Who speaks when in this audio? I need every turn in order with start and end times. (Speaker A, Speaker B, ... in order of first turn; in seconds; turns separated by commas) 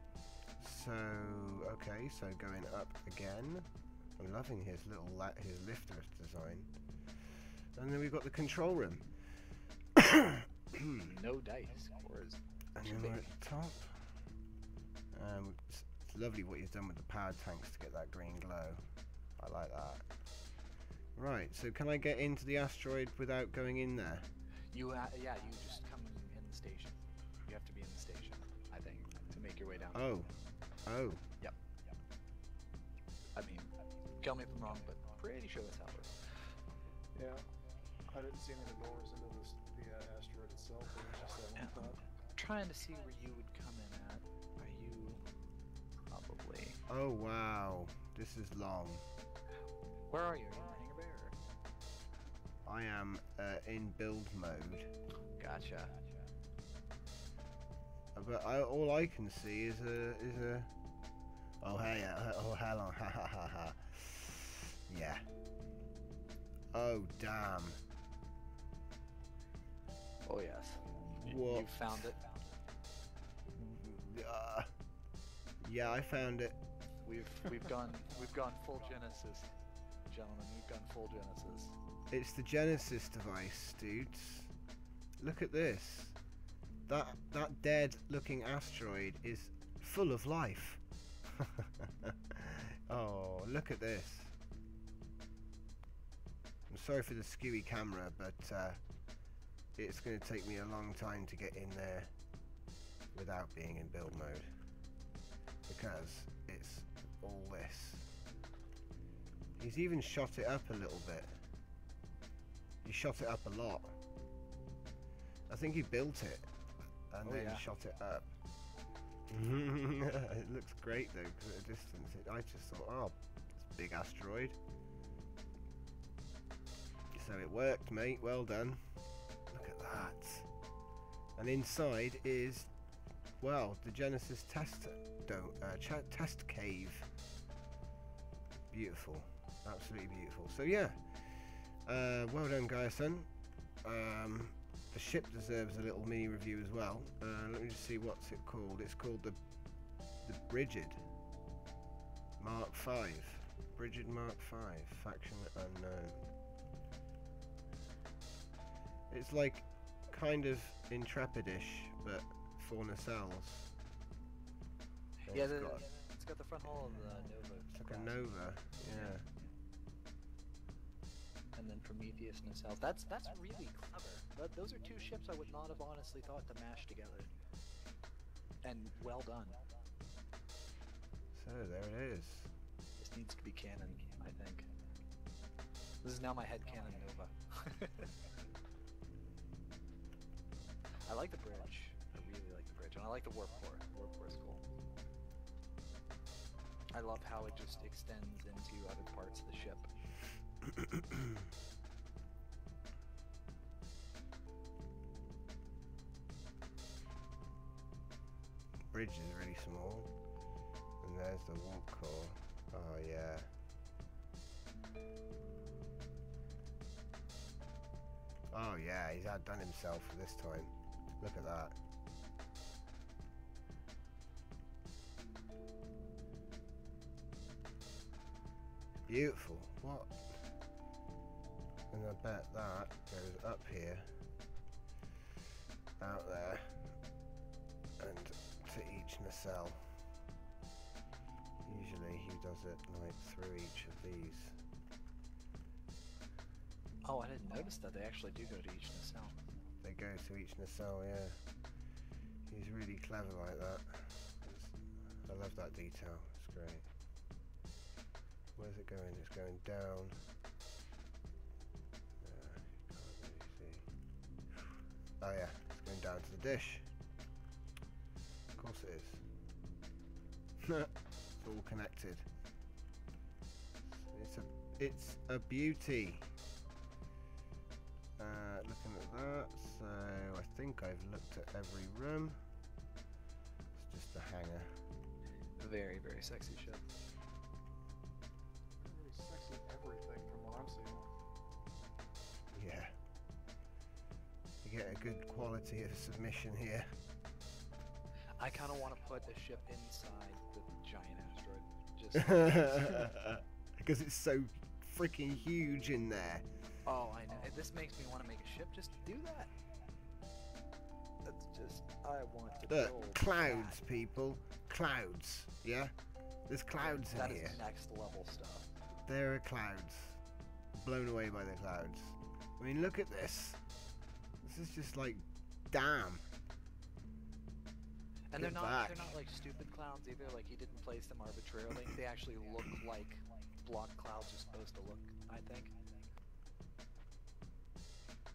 Speaker A: 0.6-3.7, Speaker A: 4.2-6.7, Speaker A: 7.8-9.1, Speaker A: 10.0-11.1, Speaker B: 11.0-13.3, Speaker A: 12.8-14.0, Speaker A: 15.1-18.8, Speaker A: 19.4-20.1, Speaker A: 21.2-24.3, Speaker B: 24.7-30.1, Speaker A: 29.9-30.3, Speaker A: 30.9-31.2, Speaker B: 33.4-36.2, Speaker C: 37.1-37.5, Speaker C: 38.1-42.0, Speaker B: 41.5-45.2, Speaker B: 46.1-46.8, Speaker A: 46.9-49.0, Speaker B: 50.1-51.4, Speaker A: 52.7-54.9, Speaker B: 55.4-56.0, Speaker A: 58.1-60.7, Speaker A: 61.6-65.2, Speaker A: 66.7-67.8, Speaker B: 70.2-72.2, Speaker A: 71.2-72.1, Speaker A: 73.5-74.7, Speaker A: 75.6-76.6, Speaker B: 77.0-79.5, Speaker B: 80.1-81.8, Speaker A: 82.1-84.5, Speaker A: 85.2-86.2, Speaker A: 86.9-90.8, Speaker A: 91.3-94.3, Speaker A: 96.7-98.8, Speaker A: 99.8-102.1, Speaker A: 103.1-104.5, Speaker A: 105.7-108.1, Speaker A: 109.6-111.3, Speaker A: 112.8-114.0, Speaker A: 115.5-116.5, Speaker A: 117.1-118.3, Speaker B: 117.2-117.7, Speaker A: 119.3-124.6, Speaker A: 127.1-128.8, Speaker A: 129.5-130.5, Speaker A: 131.4-132.7, Speaker A: 133.4-137.1, Speaker A: 138.7-143.3, Speaker A: 143.8-149.4, Speaker A: 150.2-151.0, Speaker A: 152.4-156.3, Speaker A: 159.1-163.7, Speaker B: 165.2-168.3, Speaker A: 165.3-165.8, Speaker A: 167.7-169.2, Speaker B: 168.9-169.2, Speaker B: 171.6-177.3, Speaker B: 178.6-179.6, Speaker A: 181.3-182.5, Speaker B: 183.0-184.7, Speaker B: 186.0-188.1, Speaker B: 191.1-194.6, Speaker B: 196.9-199.9, Speaker A: 208.9-210.1, Speaker A: 211.0-213.5, Speaker A: 218.5-221.8, Speaker A: 229.1-230.4, Speaker A: 231.9-234.1, Speaker A: 236.0-236.8, Speaker A: 238.0-239.9, Speaker A: 241.7-244.6, Speaker B: 247.0-249.4, Speaker A: 249.8-251.4, Speaker A: 252.5-256.9, Speaker A: 258.6-260.2, Speaker A: 262.2-263.9, Speaker A: 265.2-266.9, Speaker A: 268.5-269.2, Speaker A: 270.6-272.2, Speaker A: 273.9-276.3, Speaker A: 278.2-282.4, Speaker A: 283.8-284.8, Speaker B: 285.6-286.8, Speaker C: 288.8-291.1, Speaker A: 292.5-292.9, Speaker A: 294.6-296.9, Speaker B: 298.4-303.1, Speaker A: 302.1-306.4, Speaker B: 306.9-309.5, Speaker B: 311.2-313.8, Speaker A: 312.7-315.9, Speaker A: 316.5-317.6, Speaker B: 316.8-318.7, Speaker A: 319.1-320.2, Speaker A: 320.8-323.6, Speaker A: 324.4-326.2, Speaker B: 328.3-335.7, Speaker A: 328.4-329.2